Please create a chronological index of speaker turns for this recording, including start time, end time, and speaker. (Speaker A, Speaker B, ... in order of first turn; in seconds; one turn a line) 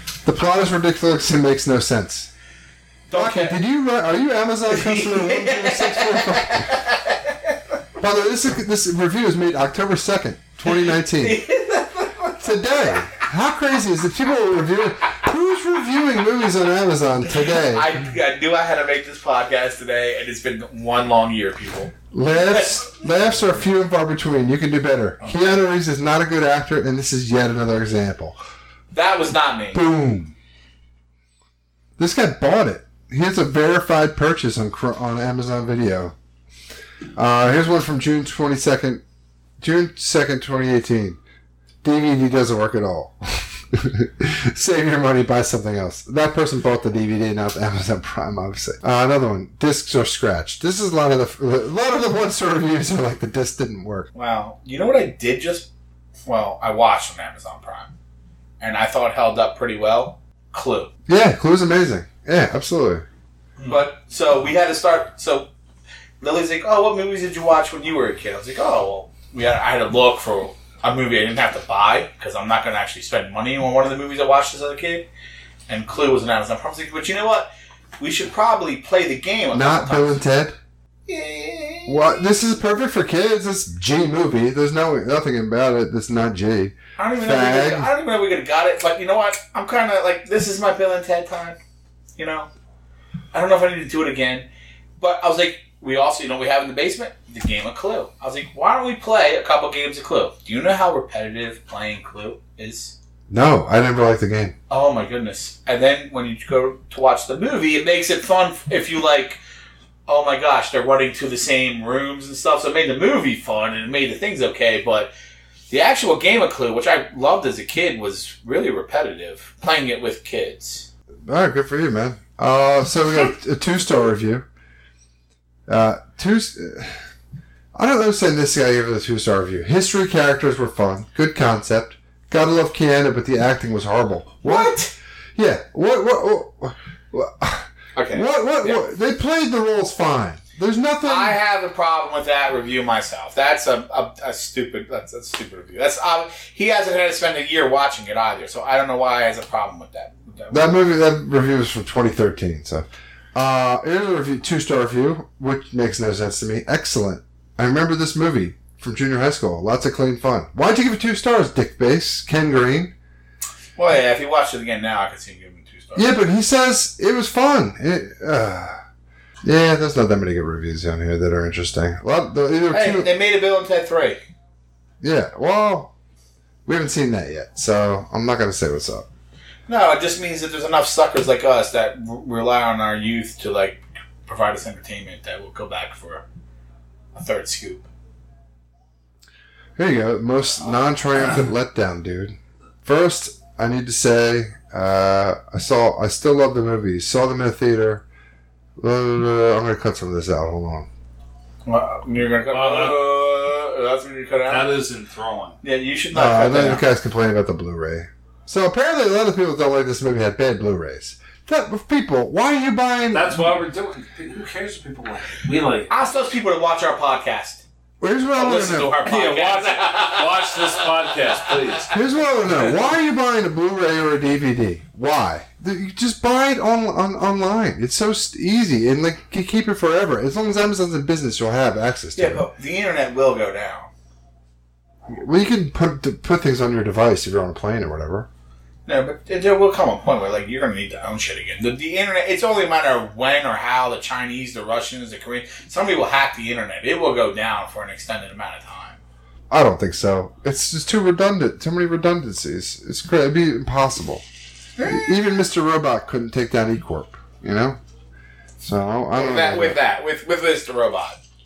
Speaker A: 0.2-2.3
Speaker B: 3.1-3.6
Speaker A: 3.1-6.7
Speaker B: 4.7-7.3
Speaker A: 8.0-11.4
Speaker B: 10.7-12.6
Speaker A: 12.4-18.0
Speaker B: 17.5-21.9
Speaker A: 22.1-28.4
Speaker B: 22.5-23.6
Speaker B: 25.2-25.6
Speaker B: 28.9-29.8
Speaker A: 29.7-30.4
Speaker A: 32.0-36.1
Speaker A: 37.2-39.0
Speaker A: 39.6-41.2
Speaker A: 41.8-54.1
Speaker B: 54.1-55.7
Speaker B: 56.3-57.9
Speaker B: 58.6-60.9
Speaker A: 61.1-63.0
Speaker B: 63.6-65.5
Speaker B: 66.2-75.1
Speaker B: 75.7-80.2
Speaker A: 79.5-80.6
Speaker B: 81.1-82.2
Speaker A: 81.9-87.9
Speaker B: 87.0-91.6
Speaker B: 92.2-92.5
Speaker B: 93.3-94.5
Speaker B: 95.0-103.0
Speaker A: 103.3-104.5
Speaker B: 104.7-109.4
Speaker B: 110.1-115.1
Speaker B: 115.7-120.9
Speaker A: 121.3-124.5
Speaker A: 125.7-127.0
Speaker A: 127.8-134.8
Speaker B: 134.4-134.9
Speaker A: 135.4-141.4
Speaker B: 137.9-138.8
Speaker B: 141.0-150.7
Speaker A: 150.5-162.9
Speaker B: 163.8-166.2
Speaker A: 165.9-168.8
Speaker A: 169.4-173.1
Speaker B: 172.7-174.2
Speaker A: 175.0-175.9
Speaker A: 176.7-179.1
Speaker B: 179.7-186.2
Speaker B: 187.1-187.9
Speaker A: 189.8-198.0
Speaker A: 198.8-200.9
Speaker B: 201.7-204.7
Speaker C: 202.5-203.0
Speaker C: 204.5-205.6
Speaker B: 205.6-206.8
Speaker A: 206.1-213.5
Speaker C: 213.1-215.9
Speaker B: 215.9-217.6
Speaker A: 218.0-218.9
Speaker B: 218.4-220.8
Speaker C: 219.1-221.9
Speaker A: 221.9-232.5
Speaker B: 232.2-233.9
Speaker A: 235.1-238.3
Speaker B: 238.9-249.0
Speaker A: 249.5-254.2
Speaker B: 254.8-255.2
Speaker A: 254.8-257.8
Speaker A: 258.6-259.8
Speaker B: 259.1-261.2